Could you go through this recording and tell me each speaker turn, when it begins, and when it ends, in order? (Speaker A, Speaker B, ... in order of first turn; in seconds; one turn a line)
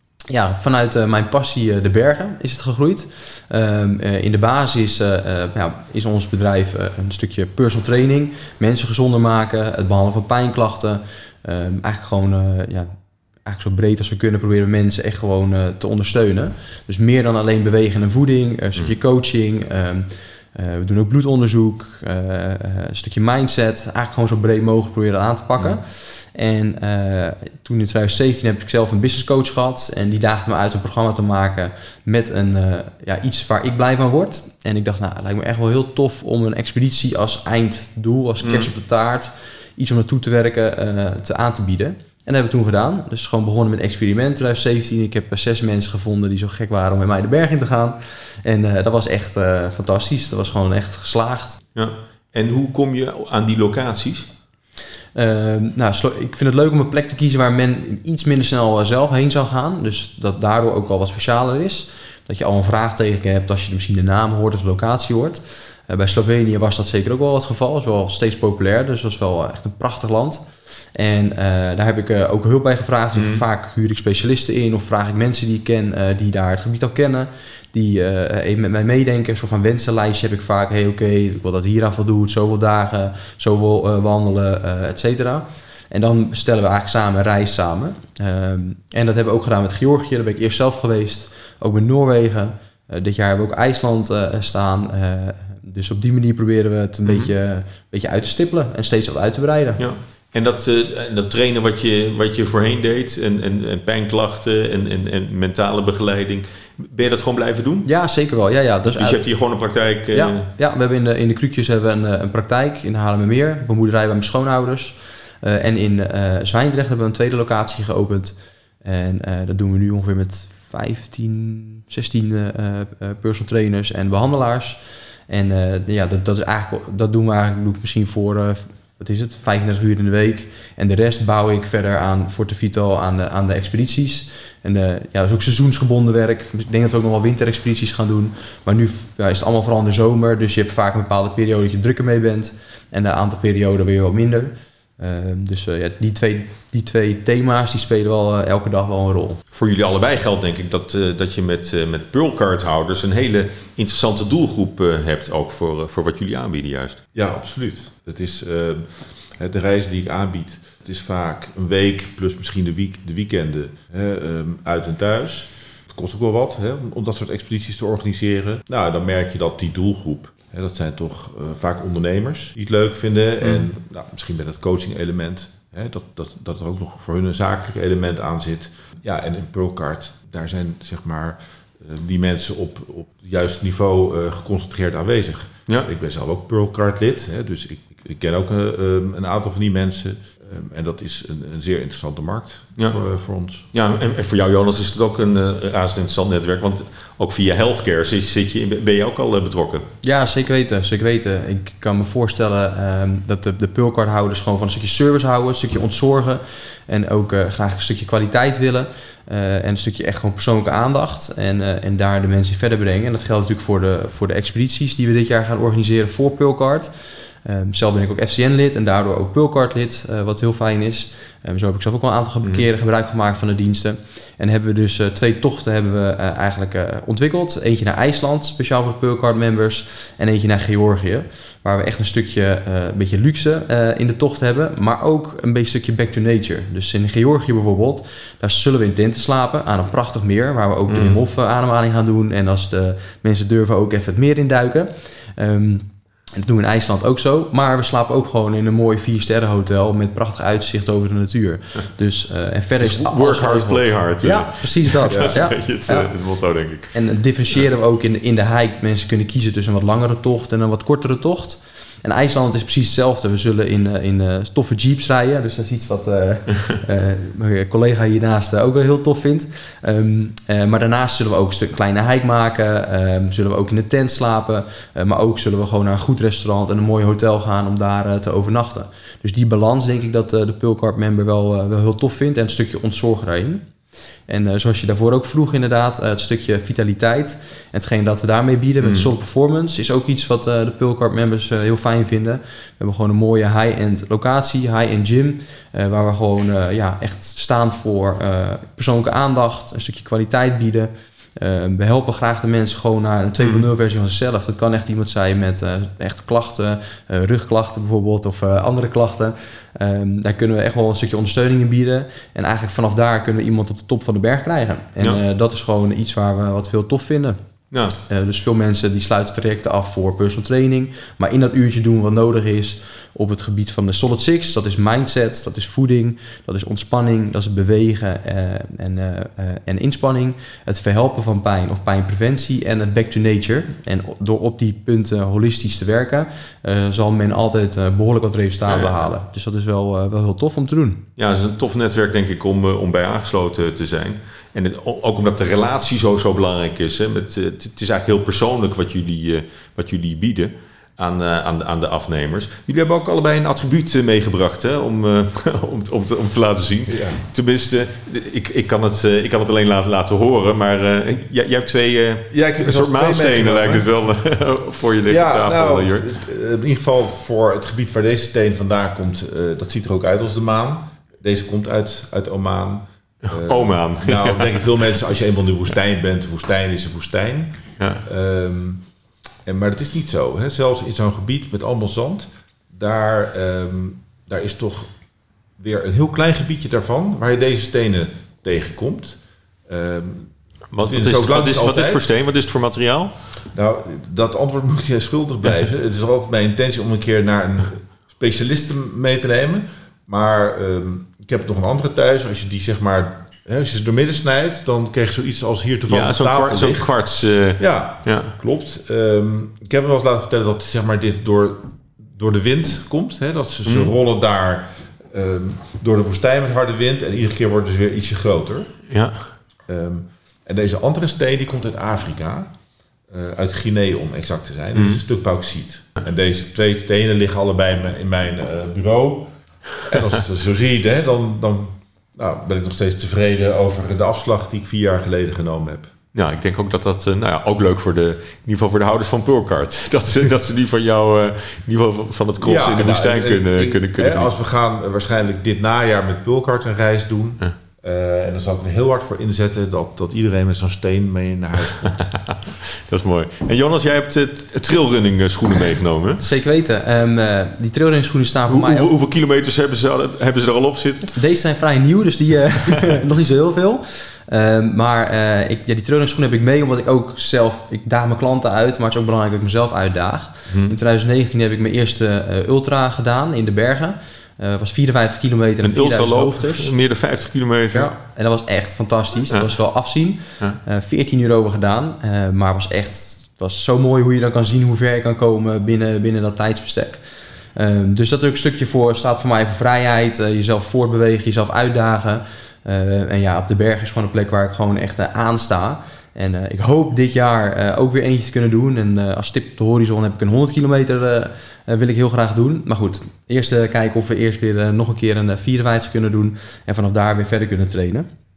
Speaker A: 0.3-12.9
Speaker A: 13.4-51.6
Speaker B: 38.4-38.7
Speaker B: 51.8-54.3
Speaker A: 55.1-99.8
Speaker B: 73.2-73.4
Speaker B: 97.1-97.3
Speaker B: 99.8-107.9
Speaker A: 107.8-109.2
Speaker B: 108.9-110.5
Speaker A: 110.1-149.4
Speaker B: 149.5-157.0
Speaker C: 157.1-193.7
Speaker B: 193.7-199.9
Speaker A: 200.0-216.9
Speaker A: 217.4-256.1
Speaker B: 240.9-241.2
Speaker B: 252.8-257.0
Speaker A: 256.9-283.7
Speaker A: 284.3-317.4
Speaker B: 288.8-289.1
Speaker B: 303.4-303.7
Speaker B: 317.7-318.0
Speaker A: 318.1-341.0
Speaker B: 338.7-339.1
Speaker B: 341.2-366.1
Speaker C: 356.9-357.2
Speaker C: 362.3-363.9
Speaker C: 365.1-378.9
Speaker B: 373.3-374.8
Speaker B: 377.8-378.0
Speaker C: 379.4-384.9
Speaker C: 385.6-392.1
Speaker B: 390.7-393.1
Speaker C: 393.5-407.0
Speaker B: 405.9-408.3
Speaker C: 407.6-418.7
Speaker B: 413.7-413.9
Speaker B: 418.9-419.3
Speaker C: 419.7-422.5
Speaker C: 423.1-435.9
Speaker B: 424.8-425.0
Speaker B: 436.1-444.3
Speaker C: 442.4-452.1
Speaker B: 451.8-456.2
Speaker A: 456.2-458.9
Speaker B: 458.5-461.2
Speaker A: 461.1-476.7
Speaker B: 470.5-470.8
Speaker B: 475.6-477.9
Speaker A: 477.7-487.0
Speaker A: 487.6-508.1